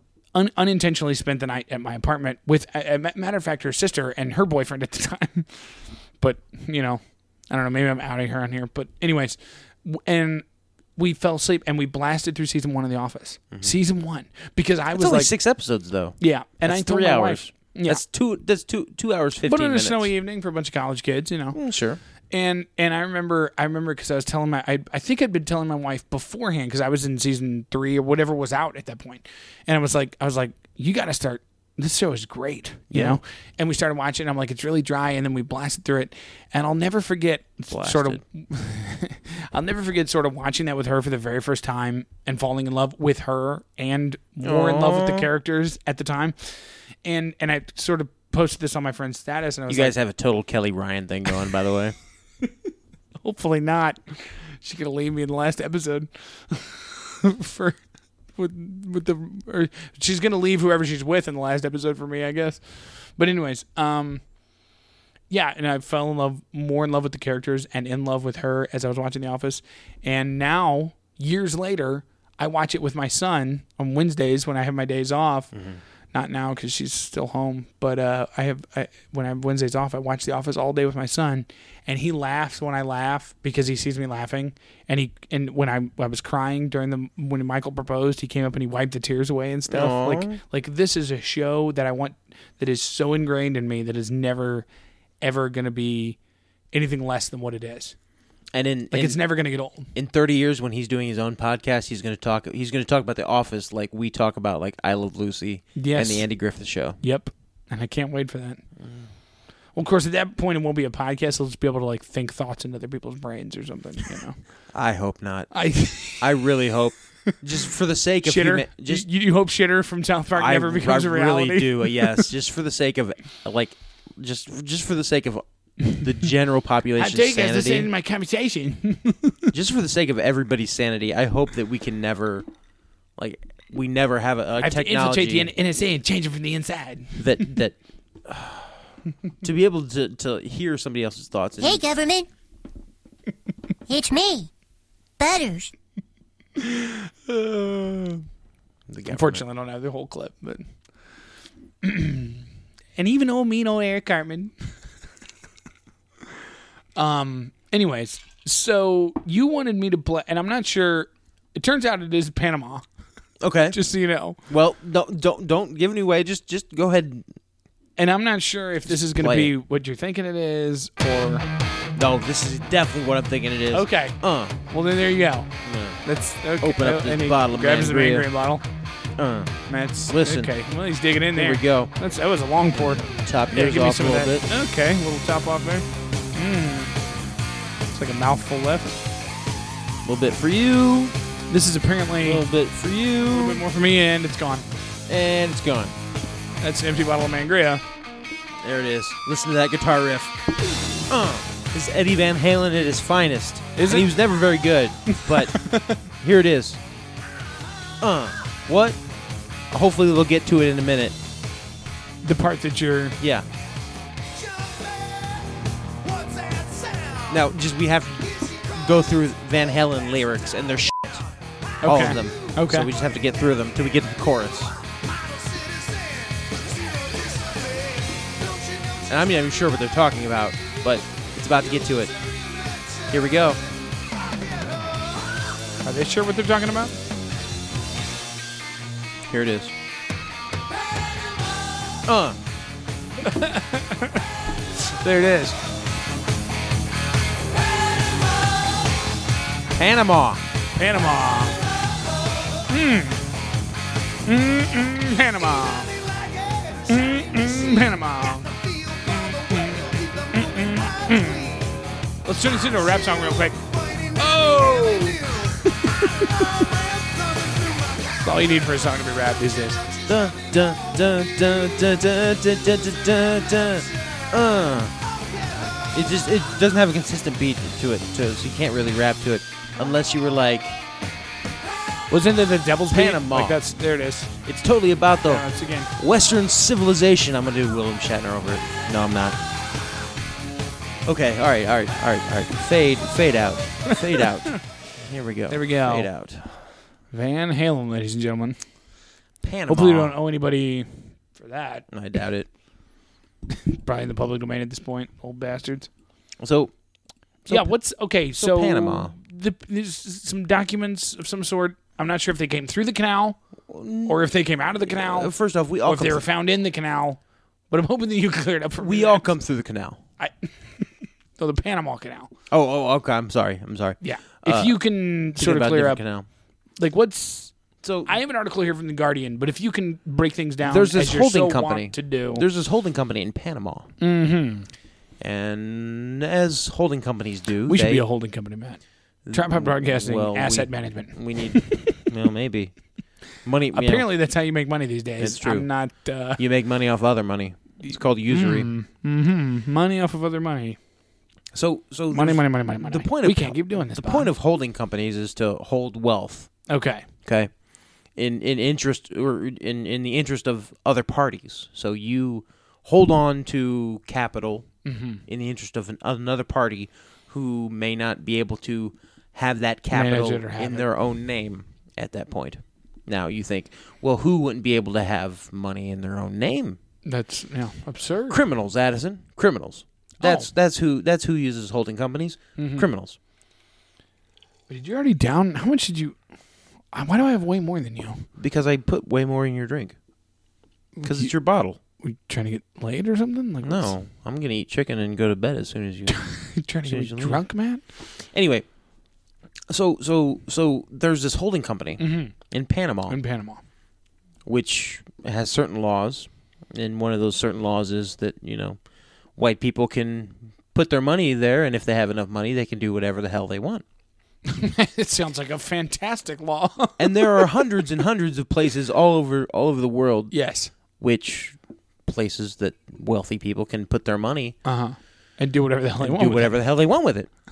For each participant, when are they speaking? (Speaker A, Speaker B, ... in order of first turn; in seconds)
Speaker A: 0.3-10.4, 11.0-15.3, 16.2-18.0, 19.4-21.6, 22.3-50.0, 53.2-57.8, 58.3-64.2, 65.3-75.5, 76.1-94.7, 95.2-96.2, 96.7-98.0, 98.9-99.9, 105.8-106.3, 107.0-108.6, 109.8-114.4, 115.5-116.4, 118.2-122.3, 127.0-129.5, 134.6-137.2, 146.6-148.2, 149.1-150.7, 151.8-152.4, 153.0-154.5, 157.0-162.8, 163.7-164.4, 168.0-171.5, 173.7-175.5, 176.0-178.6, 179.7-186.9, 187.9-189.0, 191.5-192.4, 193.3-194.7, 196.6-197.8, 203.8-204.1, 205.1-206.0, 212.2-213.2, 221.8-222.9, 235.8-236.9, 243.2-244.2, 244.8-245.6, 250.8-251.6, 252.7-253.2, 254.2-255.9, 256.9-261.6, 262.2-266.6, 268.2-269.9, 282.1-284.4, 285.2-285.9, 295.5-296.1, 297.1-298.6, 299.7-301.9, 303.5-305.9, 307.5-313.4, 314.1-319.3, 320.2-322.3, 324.0-326.0, 326.8-332.4, 334.0-334.7, 337.7-342.0, 343.7-346.4, 347.8-350.8, 352.1-354.3, 356.7-357.1, 364.9-365.2, 369.9-370.9, 377.1-378.4, 380.2-380.5, 382.6-382.9, 384.7-386.2, 386.9-388.3, 391.0-391.3, 392.0-393.9, 396.1-397.8, 402.0-402.4, 403.1-403.6, 414.5-417.7, 420.3-420.7, 424.6-426.6
Speaker B: 14.9-20.1, 21.5-22.0, 32.9-33.2, 37.7-38.2, 44.4-45.3, 49.7-52.0, 75.5-75.8, 89.7-90.4, 98.5-99.2, 99.9-107.0, 108.8-109.1, 114.7-115.5, 116.0-119.1, 120.3-127.9, 129.5-132.5, 133.2-135.5, 137.2-138.8, 139.4-141.8, 148.9-149.4, 163.4-163.8, 164.5-167.2, 168.9-169.5, 172.0-174.6, 175.7-176.0, 176.6-178.3, 179.2-180.5, 181.3-181.9, 183.0-184.5, 190.0-191.2, 192.2-193.6, 195.1-195.9, 198.6-206.8, 208.0-209.0, 209.7-211.2, 213.2-213.5, 217.3-221.3, 221.8-224.7, 229.1-232.2, 233.1-233.6, 239.3-239.7, 242.1-242.4, 249.8-250.4, 270.1-274.9, 275.9-280.8, 282.9-283.6, 284.4-289.4, 291.1-296.5, 299.4-300.1, 301.9-302.5, 306.4-306.7, 307.4-307.8, 308.3-309.1, 313.7-314.2, 314.8-316.2, 318.8-320.0, 322.5-326.3, 327.8-328.1, 330.6-333.9, 335.2-338.1, 339.2-342.8, 343.4-344.1, 345.2-345.7, 346.4-348.7, 351.5-356.5, 357.2-357.5, 358.1-364.7, 365.3-376.8, 378.3-383.2, 388.4-390.0, 391.0-391.8, 393.6-397.4, 398.2-398.7, 399.7-403.2, 404.4-408.8, 409.4-413.8, 417.0-420.4, 421.0-424.6, 426.0-427.3
Speaker C: 141.6-142.3, 143.9-144.5, 145.2-145.7